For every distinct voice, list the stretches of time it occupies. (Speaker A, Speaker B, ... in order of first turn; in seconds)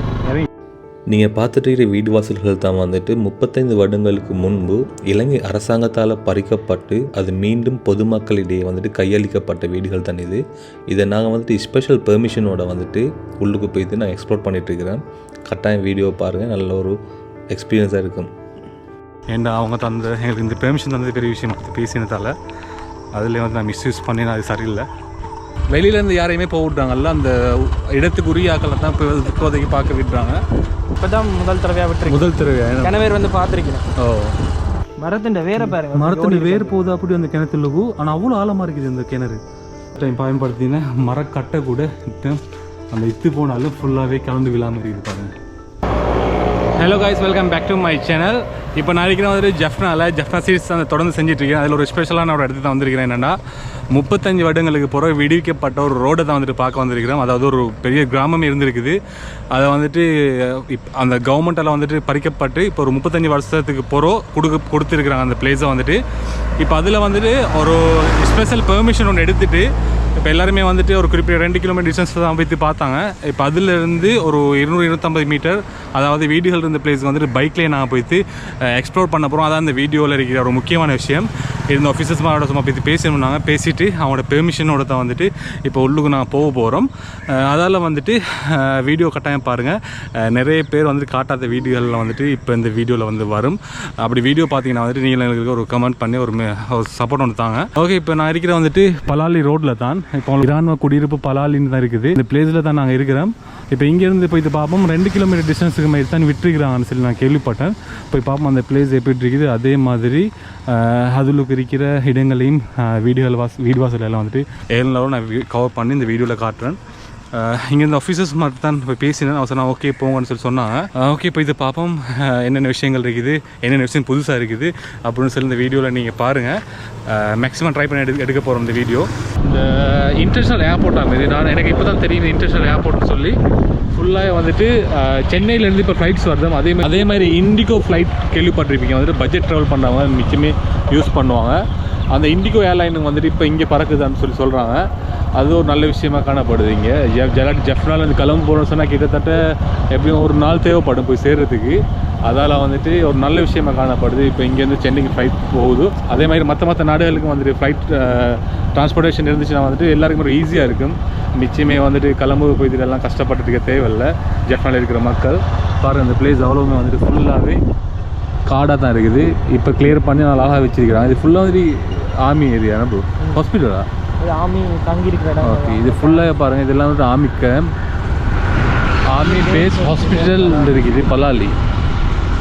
Speaker A: 1.1-16.9, 17.5-18.3
Speaker B: 19.3-22.3, 23.1-24.9, 25.7-30.4, 32.1-33.1, 34.0-34.3, 35.5-39.4, 39.9-42.4, 42.9-45.3, 46.7-53.4, 53.9-59.0, 59.5-66.0, 66.6-116.8, 117.3-133.4, 133.9-167.6, 168.4-173.9, 175.4-177.7, 179.1-181.6
Speaker C: 31.0-32.2, 32.8-33.8, 35.0-36.7, 174.2-176.3, 179.2-180.8